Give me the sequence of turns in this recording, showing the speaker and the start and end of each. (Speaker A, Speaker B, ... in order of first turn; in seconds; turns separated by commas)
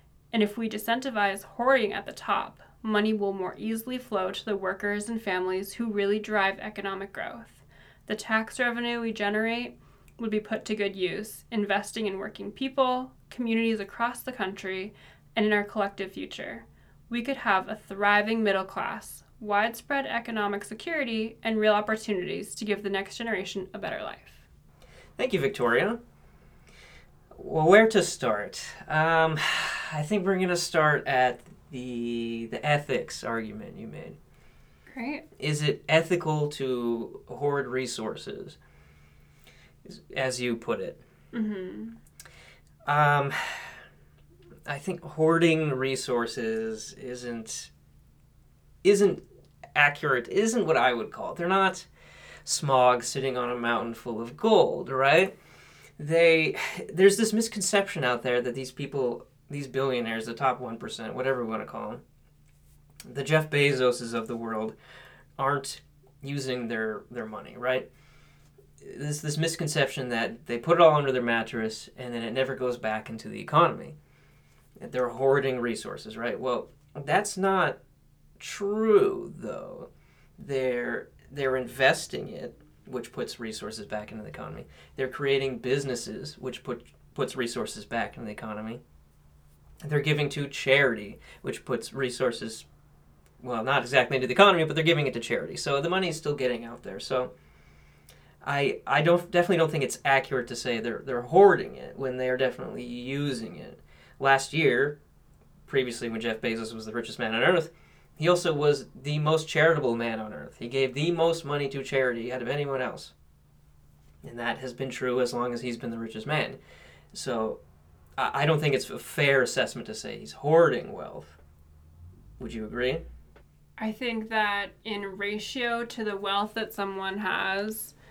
Speaker A: 0.3-24.4, Speaker B: 25.2-26.0, Speaker B: 27.3-34.2, Speaker A: 34.9-35.3, Speaker B: 35.4-38.6, Speaker B: 39.9-41.0, Speaker A: 41.3-42.0, Speaker B: 42.9-43.8, Speaker B: 44.7-47.7, Speaker B: 48.8-49.2, Speaker B: 49.8-51.9, Speaker B: 52.4-55.4, Speaker B: 56.0-62.0, Speaker B: 63.1-64.8, Speaker B: 65.4-67.9, Speaker B: 68.8-74.0, Speaker B: 74.8-77.8, Speaker B: 78.4-88.8, Speaker B: 89.8-92.7, Speaker B: 93.4-97.3, Speaker B: 98.4-105.0, Speaker B: 105.7-113.1, Speaker B: 114.2-116.6, Speaker B: 117.1-117.6, Speaker B: 118.2-121.4, Speaker B: 122.4-123.0, Speaker A: 123.8-128.0